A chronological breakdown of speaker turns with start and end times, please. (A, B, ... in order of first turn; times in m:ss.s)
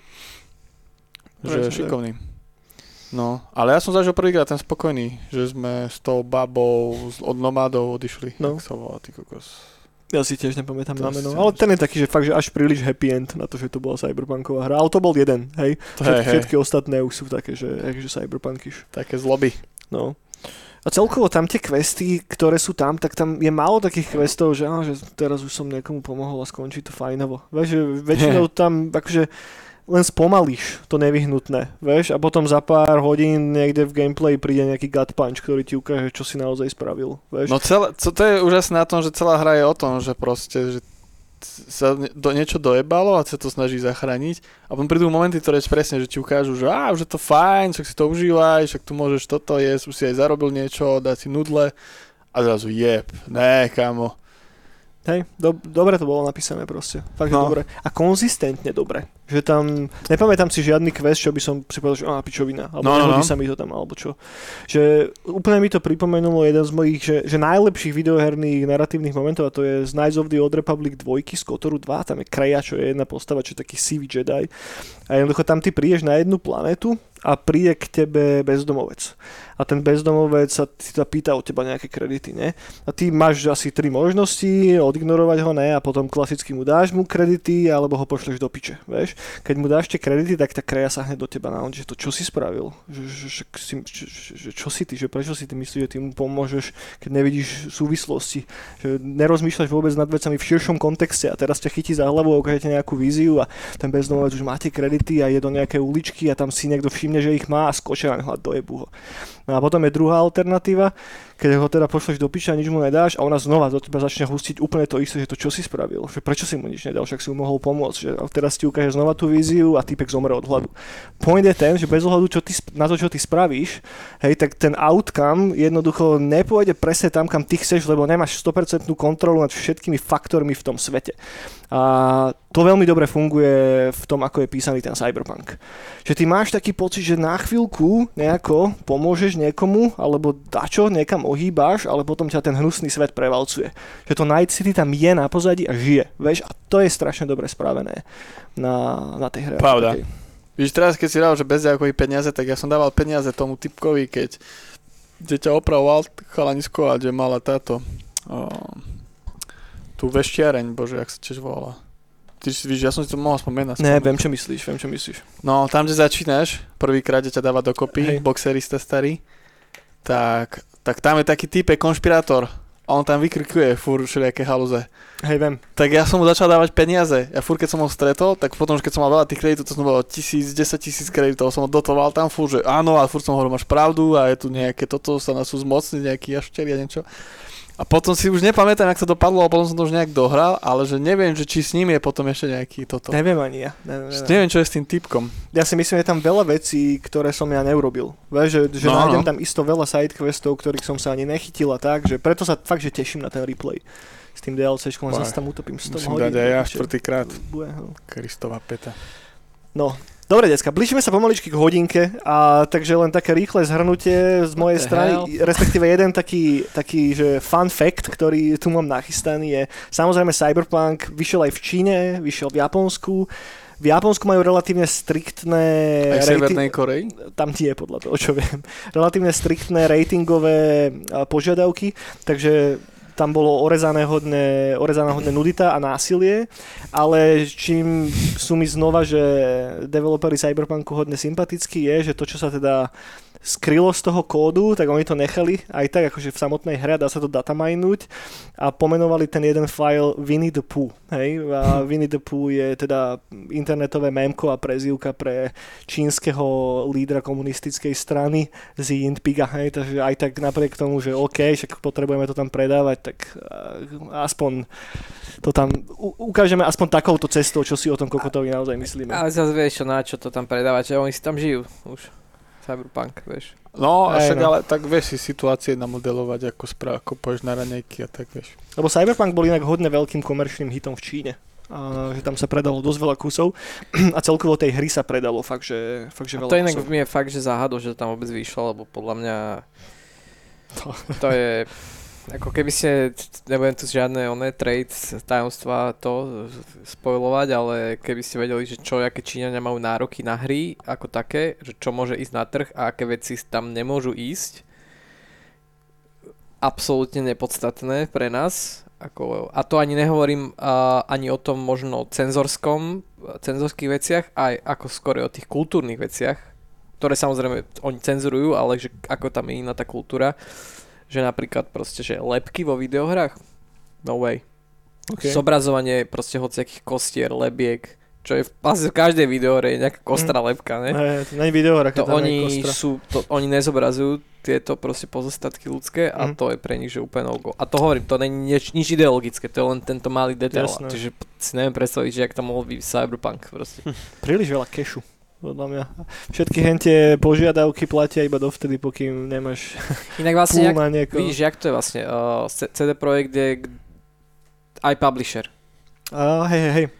0:01.4-0:02.0 A
0:01.4-0:09.8 B
0:10.1-0:37.6 A
0:11.0-0:11.8 B
0:16.0-0:16.5 B
0:18.9-0:19.8 B
0:28.1-0:28.4 B
0:37.4-0:54.3 B
0:55.0-2:30.1 A
0:57.3-0:57.6 B
1:02.8-1:03.3 B
2:29.6-2:39.4 B
2:39.9-2:44.5 B
2:43.8-2:45.2 A
2:45.4-3:15.5 B
2:47.9-2:48.2 A
2:55.2-2:55.6 A
3:13.1-3:15.0 A
3:15.5-3:28.0 A
3:18.8-3:19.3 B
3:25.1-3:29.0 B
3:29.7-4:29.2 A
3:34.6-3:35.8 C
3:46.1-3:47.2 B
4:28.9-4:33.6 C
4:33.7-4:38.6 B
4:34.1-4:34.5 A
4:38.7-4:46.9 A
4:46.4-4:49.8 C
4:50.8-4:51.2 A
4:51.2-5:04.6 C
5:06.6-5:31.3 C
5:25.1-5:25.4 A
5:30.1-5:32.8 A
5:31.9-5:43.9 C
5:40.5-5:41.0 A
5:44.2-5:51.4 A
5:50.2-5:54.0 C
5:54.8-5:55.5 C
5:56.1-5:56.9 A